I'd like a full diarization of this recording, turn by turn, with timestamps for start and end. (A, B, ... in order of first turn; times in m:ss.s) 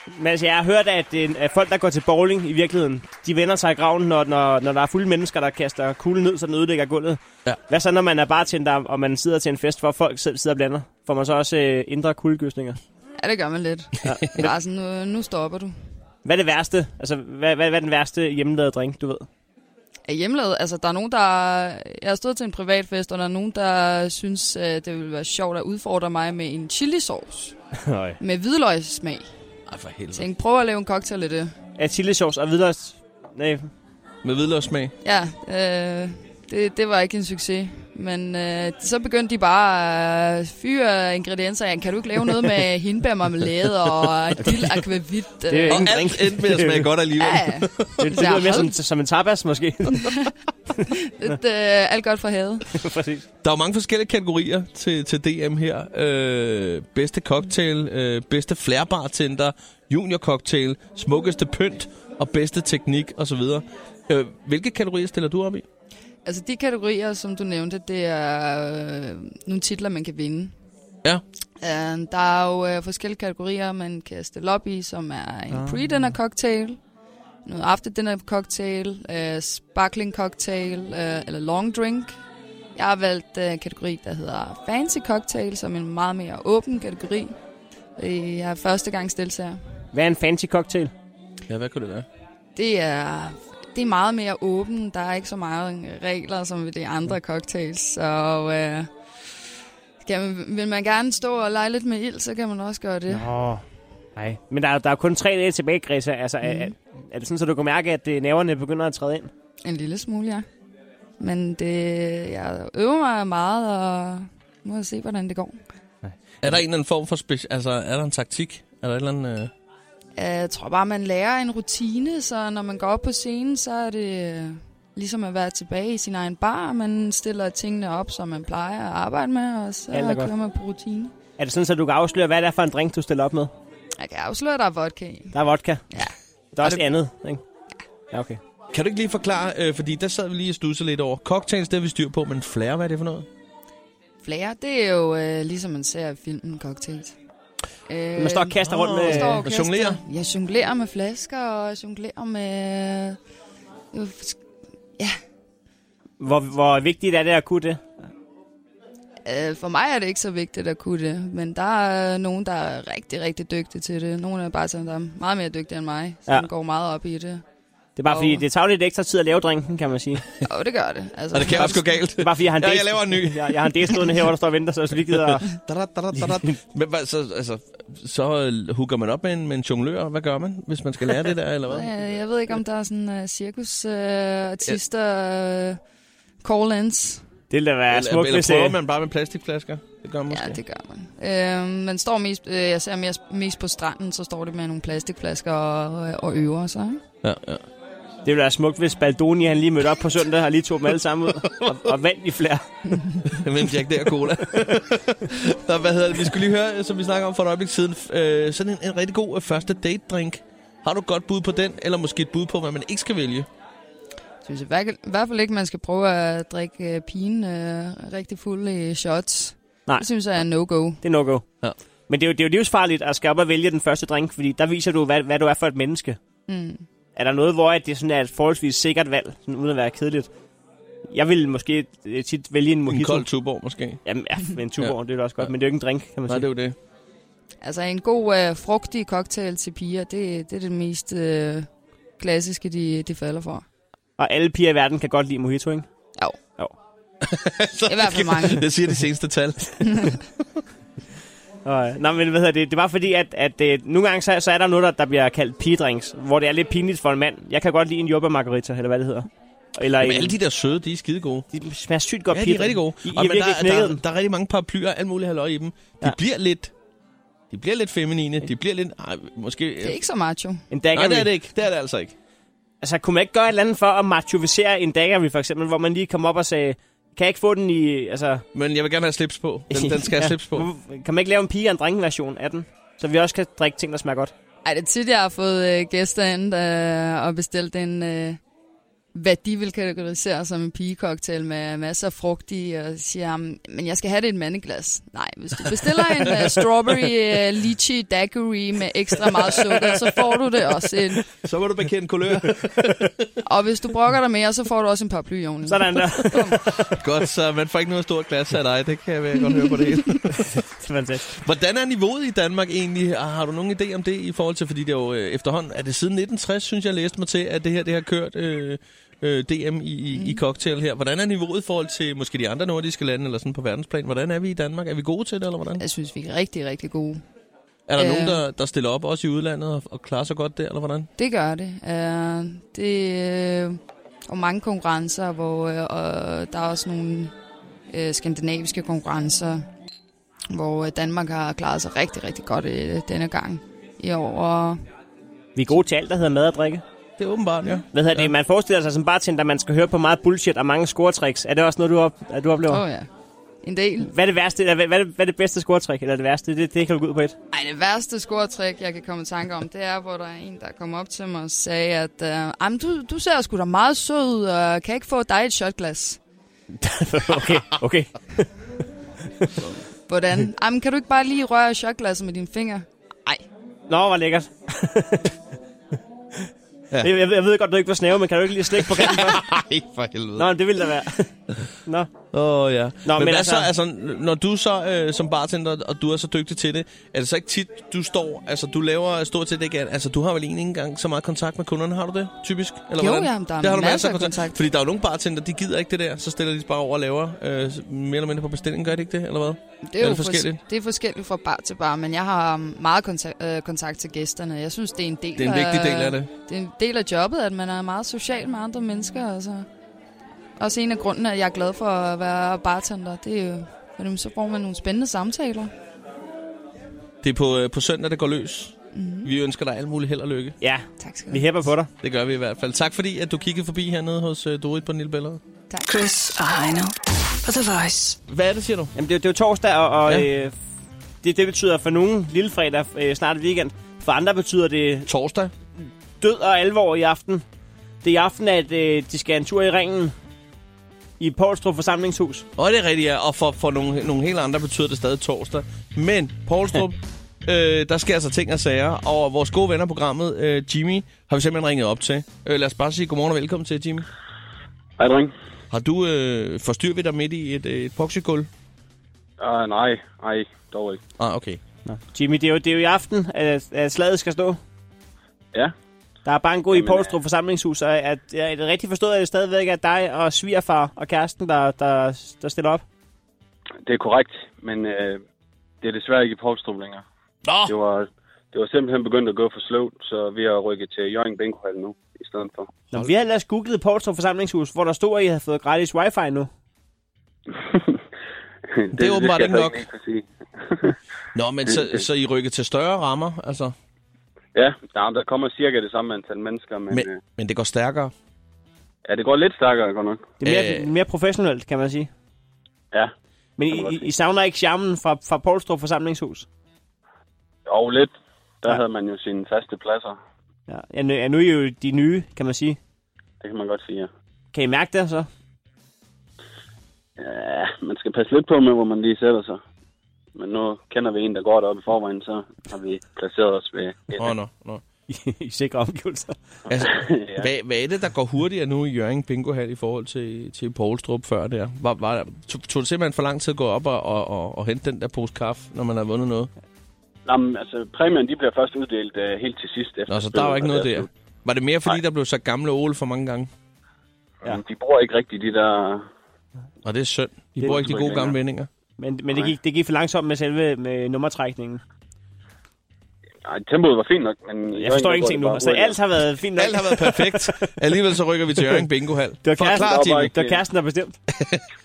0:00.1-0:12.8 A
0:13.2-0:15.7 B
0:14.0-0:14.4 A
0:16.2-0:19.3 A
0:20.1-0:27.6 B
0:27.8-0:28.2 A
0:28.2-0:29.2 B
0:29.7-0:30.3 C
0:30.1-0:31.5 B
0:31.8-0:33.7 A
0:34.2-0:34.9 C
0:35.0-0:46.0 B
0:45.5-0:46.9 A
0:45.7-0:48.4 C
0:47.2-0:48.8 B
0:48.0-0:50.2 A
0:49.9-0:50.3 B
0:50.9-0:52.8 B
0:52.7-0:53.3 A
0:53.4-1:05.6 C
1:06.2-1:10.5 B
1:11.6-1:16.8 B
1:15.5-1:16.1 A
1:17.4-1:22.2 B
1:22.7-1:27.3 B
1:28.0-1:29.6 B
1:29.9-1:30.9 A
1:31.5-1:32.1 C
1:32.6-1:38.9 B
1:40.0-1:43.4 B
1:43.1-1:43.6 A
1:44.2-1:49.3 A
1:46.4-1:46.7 B
1:49.6-1:50.4 B
1:51.2-1:55.6 B
1:56.4-1:59.5 C
2:00.2-2:11.1 B
2:09.9-2:10.3 A
2:11.4-2:13.5 A
2:14.0-2:15.3 B
2:15.3-2:15.8 A
2:15.9-2:16.8 B
2:16.6-2:17.4 A
2:18.1-2:18.4 A
2:18.7-2:23.3 C
2:24.2-2:27.1 B
2:27.9-2:33.2 B
2:28.2-2:29.4 A
2:28.6-2:30.0 C
2:33.9-2:34.4 B
2:36.2-2:37.9 A
2:39.2-2:47.4 B
2:48.0-2:50.2 A
2:50.5-2:51.9 B
2:51.3-2:53.7 C
2:51.6-2:55.5 A
2:55.4-3:02.2 C
2:56.2-2:56.6 A
3:01.6-3:05.8 B
3:06.4-3:07.2 B
3:07.5-3:08.8 A
3:07.9-3:10.6 C
3:10.3-3:17.0 B
3:17.2-3:17.6 C
3:18.2-3:22.6 A
3:23.2-3:33.5 C
3:34.4-3:41.0 B
3:41.0-3:41.4 A
3:42.1-3:46.2 A
3:46.5-3:46.8 B
3:47.1-3:50.3 A
3:51.1-3:53.3 A
3:52.9-3:54.0 C
3:54.0-3:56.5 A
3:54.8-3:55.5 C
3:56.3-3:56.8 C
3:57.6-4:01.7 B
4:02.2-4:03.6 B
4:04.2-4:05.9 A
4:07.2-4:10.2 C
4:07.9-4:08.7 B
4:09.8-4:10.1 B
4:11.6-4:20.4 A
4:20.0-4:21.4 C
4:21.5-4:24.0 A
4:22.3-4:26.7 C
4:27.5-4:29.9 C
4:29.8-4:30.6 B
4:30.7-4:31.3 A
4:30.9-4:32.1 C
4:32.8-4:38.4 A
4:38.5-4:40.7 C
4:39.7-4:44.3 A
4:44.6-4:48.4 B
4:49.1-5:01.2 B
5:01.4-5:03.3 C
5:03.4-5:06.6 B
5:05.6-5:07.0 A
5:06.9-5:10.6 C
5:09.4-5:10.0 B
5:10.6-5:11.4 A
5:11.3-5:25.8 C
5:20.1-5:20.4 B
5:25.8-5:27.2 B
5:27.9-5:31.1 C
5:28.0-5:28.4 B
5:31.2-5:37.3 B
5:37.9-5:39.6 B
5:40.5-5:44.8 B
5:45.6-5:46.8 A
5:47.2-5:48.3 C
5:47.9-5:52.8 A
5:52.7-5:53.1 B
5:53.6-5:54.1 B
5:54.0-5:57.4 A
5:57.5-6:06.2 B
6:06.8-6:09.7 A
6:10.1-6:13.4 B
6:13.9-6:15.3 A
6:17.0-6:19.4 A
6:18.8-6:20.5 C
6:20.4-6:21.3 A
6:22.3-6:40.6 C
6:23.1-6:23.7 A
6:33.0-6:34.6 B
6:39.8-6:49.7 B
6:45.4-6:46.3 C
6:50.6-6:55.7 B
6:57.2-7:00.6 C
6:58.9-6:59.3 B
7:00.6-7:01.9 A
7:01.0-7:01.6 B
7:02.0-7:05.4 C
7:05.8-7:08.2 D
7:08.3-7:08.9 C
7:09.0-7:10.5 A
7:11.2-7:15.1 A
7:15.1-7:15.5 C
7:16.2-7:17.4 A
7:18.0-7:20.1 A
7:21.2-7:22.5 A
7:22.6-7:34.1 C
7:35.0-7:35.3 E
7:35.7-7:38.5 C
7:39.4-7:41.0 E
7:41.2-7:41.6 C
7:41.8-7:44.6 A
7:46.2-7:52.8 A
7:46.7-7:47.2 E
7:53.8-7:55.2 E
7:55.8-7:57.0 E
7:57.5-7:57.8 C
7:57.6-8:02.7 E
8:02.9-8:06.5 A
8:07.5-8:08.0 E
8:08.7-8:11.0 E
8:08.9-8:09.8 C
8:11.3-8:13.7 C
8:11.7-8:12.0 E
8:14.5-8:17.2 E
8:16.9-8:18.1 C
8:19.1-8:20.3 E
8:20.4-8:22.1 A
8:20.4-8:20.9 C
8:23.6-8:26.5 A
8:23.7-8:24.1 E
8:27.7-8:30.2 E
8:30.7-8:32.8 A
8:33.4-8:34.1 E
8:34.5-8:35.3 A
8:37.2-8:39.6 E
8:40.4-8:44.3 E
8:44.2-8:44.8 C
8:45.1-8:46.4 A
8:46.7-8:47.5 E
8:46.7-8:56.5 C
8:57.2-9:01.1 E
9:00.1-9:03.5 C
9:04.4-9:06.1 E
9:06.8-9:08.7 C
9:07.6-9:07.8 A
9:07.6-9:08.4 E
9:09.0-9:11.8 A
9:13.4-9:16.0 E
9:14.8-9:17.7 A
9:16.6-9:20.4 C
9:19.4-9:21.2 A
9:19.6-9:20.6 E
9:21.3-9:21.6 C